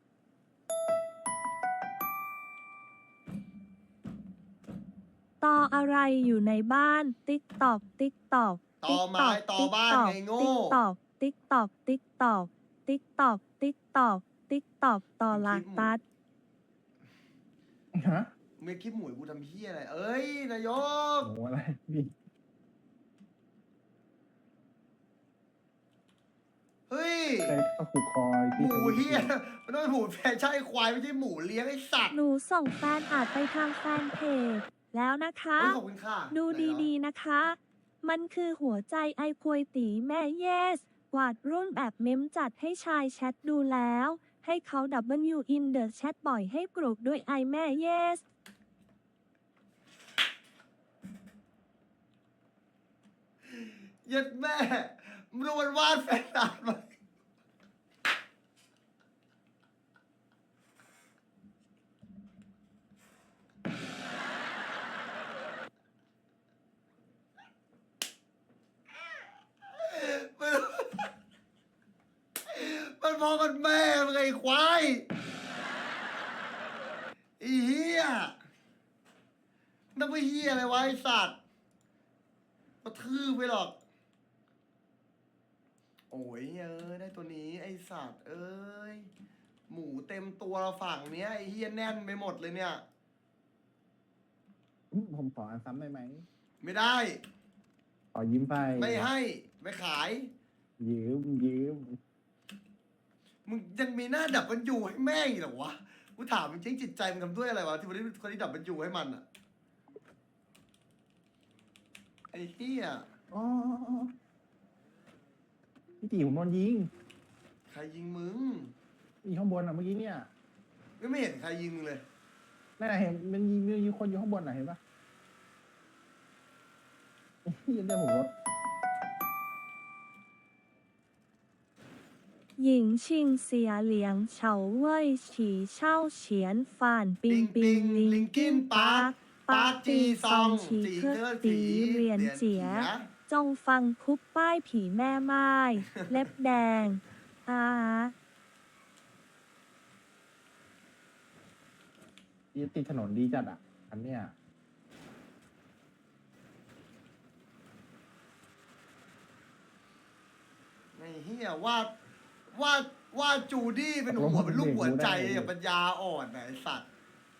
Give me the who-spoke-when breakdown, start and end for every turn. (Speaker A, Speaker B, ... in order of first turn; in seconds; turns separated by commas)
Speaker A: 5.4-16.0, Speaker B: 8.8-10.8, Speaker B: 15.3-15.9, Speaker C: 17.9-18.3, Speaker B: 18.6-21.3, Speaker C: 21.2-22.1, Speaker B: 26.9-27.6, Speaker C: 27.4-29.3, Speaker B: 28.6-32.2, Speaker A: 32.1-35.8, Speaker B: 35.6-36.9, Speaker A: 36.3-48.2, Speaker B: 53.6-56.9, Speaker B: 69.8-71.1, Speaker B: 72.5-75.1, Speaker B: 77.4-78.4, Speaker B: 79.9-81.4, Speaker B: 82.8-83.8, Speaker B: 86.1-89.1, Speaker B: 89.7-92.8, Speaker C: 94.9-96.3, Speaker B: 96.6-97.2, Speaker C: 98.1-99.1, Speaker B: 98.8-100.3, Speaker C: 100.8-102.0, Speaker B: 103.5-109.2, Speaker B: 112.3-113.1, Speaker C: 113.3-114.1, Speaker C: 116.0-116.9, Speaker B: 117.7-118.7, Speaker C: 119.2-120.3, Speaker B: 121.0-122.0, Speaker C: 122.8-124.8, Speaker C: 127.5-128.3, Speaker A: 132.6-148.1, Speaker B: 137.3-143.1, Speaker C: 152.5-154.3, Speaker B: 160.9-161.9, Speaker B: 162.5-166.8, Speaker C: 164.1-165.5